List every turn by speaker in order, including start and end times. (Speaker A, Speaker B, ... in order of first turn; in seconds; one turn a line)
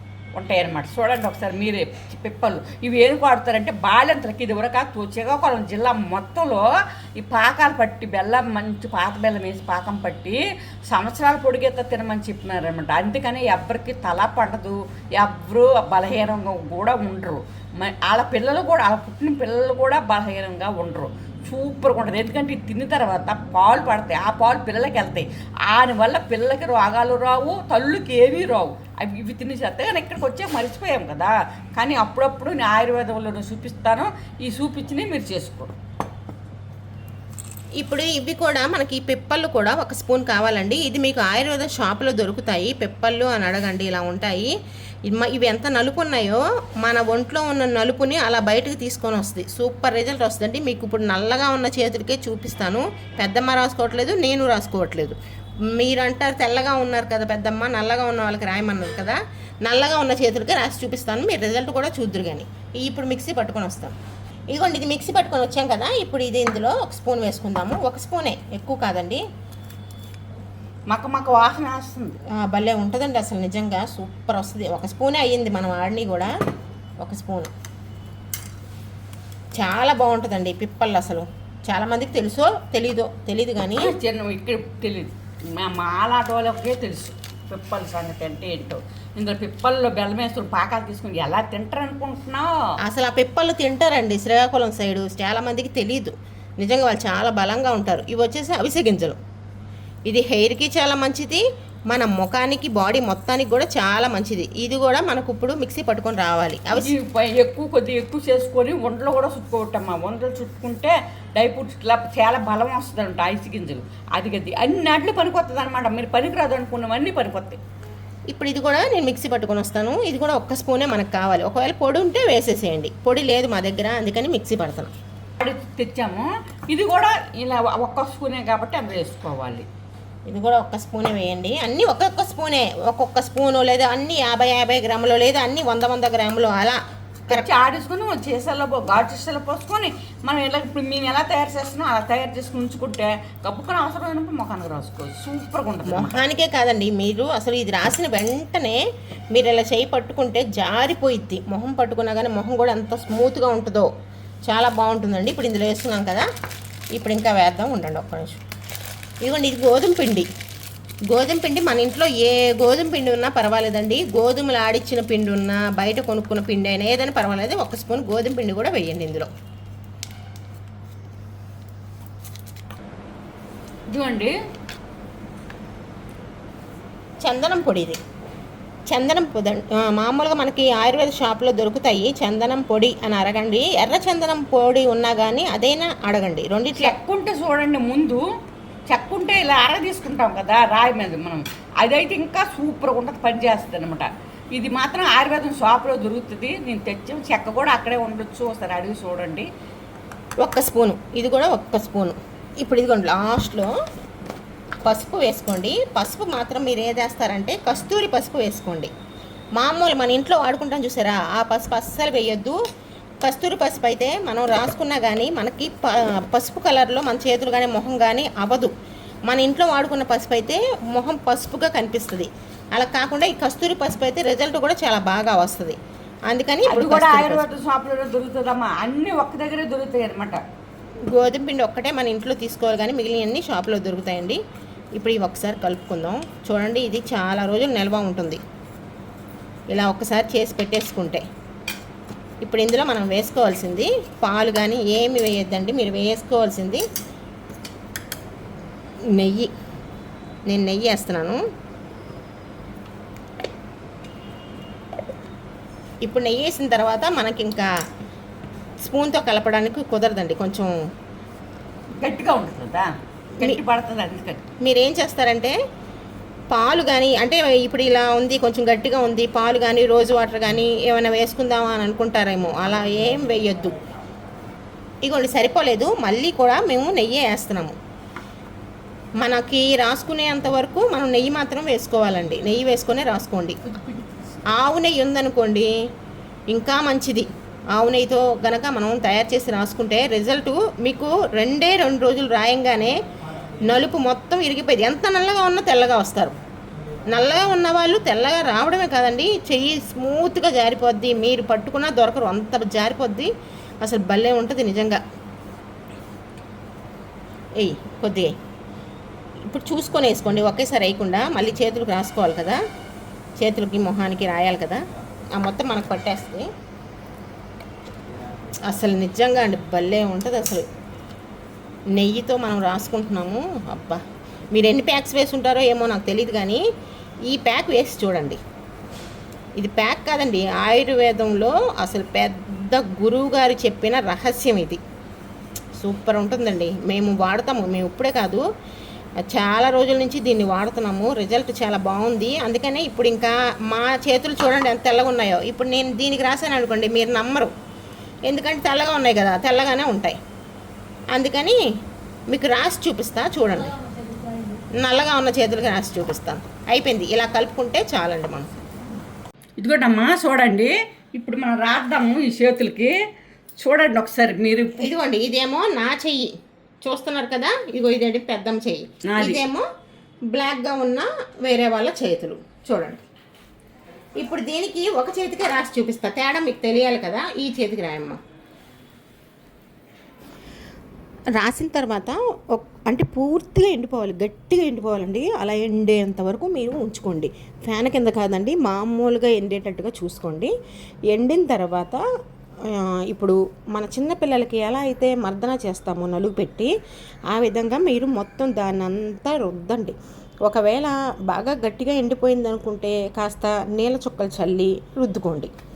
Speaker A: 0.3-35.7
Speaker B: 37.8-44.5
Speaker B: 45.1-55.2
Speaker B: 55.8-64.0
Speaker B: 64.5-69.2
Speaker A: 70.9-72.2
Speaker B: 72.4-76.3
Speaker B: 77.0-77.5
Speaker B: 79.6-83.9
Speaker A: 83.8-92.5
Speaker B: 92.8-99.2
Speaker B: 100.1-107.0
Speaker A: 106.8-117.6
Speaker B: 118.3-124.9
Speaker A: 125.4-129.7
Speaker B: 130.3-137.5
Speaker A: 137.3-146.2
Speaker B: 145.9-153.9
Speaker B: 154.5-156.3
Speaker B: 156.9-158.4
Speaker B: 159.2-160.3
Speaker B: 161.1-169.3
Speaker A: 173.9-174.3
Speaker B: 177.2-178.0
Speaker B: 178.9-186.9
Speaker A: 186.8-188.2
Speaker A: 188.9-199.5
Speaker B: 200.4-203.7
Speaker B: 204.8-208.9
Speaker B: 209.6-212.6
Speaker B: 213.2-218.7
Speaker B: 219.3-225.8
Speaker B: 226.3-227.5
Speaker A: 226.7-230.4
Speaker B: 231.1-234.4
Speaker B: 235.0-238.4
Speaker B: 239.7-241.2
Speaker B: 242.4-246.8
Speaker B: 249.2-249.5
Speaker B: 250.5-251.4
Speaker B: 256.0-257.7
Speaker B: 258.8-260.7
Speaker A: 262.0-264.5
Speaker B: 264.6-265.6
Speaker B: 266.5-273.8
Speaker B: 275.0-277.8
Speaker B: 279.2-283.6
Speaker A: 283.7-284.3
Speaker B: 284.5-285.7
Speaker B: 286.5-293.0
Speaker B: 293.6-296.4
Speaker B: 297.1-303.3
Speaker B: 303.8-305.0
Speaker B: 307.6-308.3
Speaker B: 309.5-312.6
Speaker B: 313.4-314.8
Speaker B: 315.3-316.5
Speaker B: 318.7-320.7
Speaker B: 322.0-324.0
Speaker B: 324.5-326.6
Speaker B: 327.3-328.4
Speaker B: 329.6-334.8
Speaker B: 335.8-338.4
Speaker B: 339.2-347.5
Speaker B: 348.3-350.2
Speaker B: 351.1-351.6
Speaker B: 352.3-353.8
Speaker B: 354.8-358.6
Speaker A: 359.6-363.0
Speaker A: 363.6-364.9
Speaker B: 364.8-366.3
Speaker B: 366.8-369.7
Speaker A: 369.1-369.4
Speaker B: 370.3-373.1
Speaker B: 374.2-378.2
Speaker B: 381.4-390.5
Speaker B: 391.1-392.0
Speaker B: 392.6-396.7
Speaker B: 397.3-405.5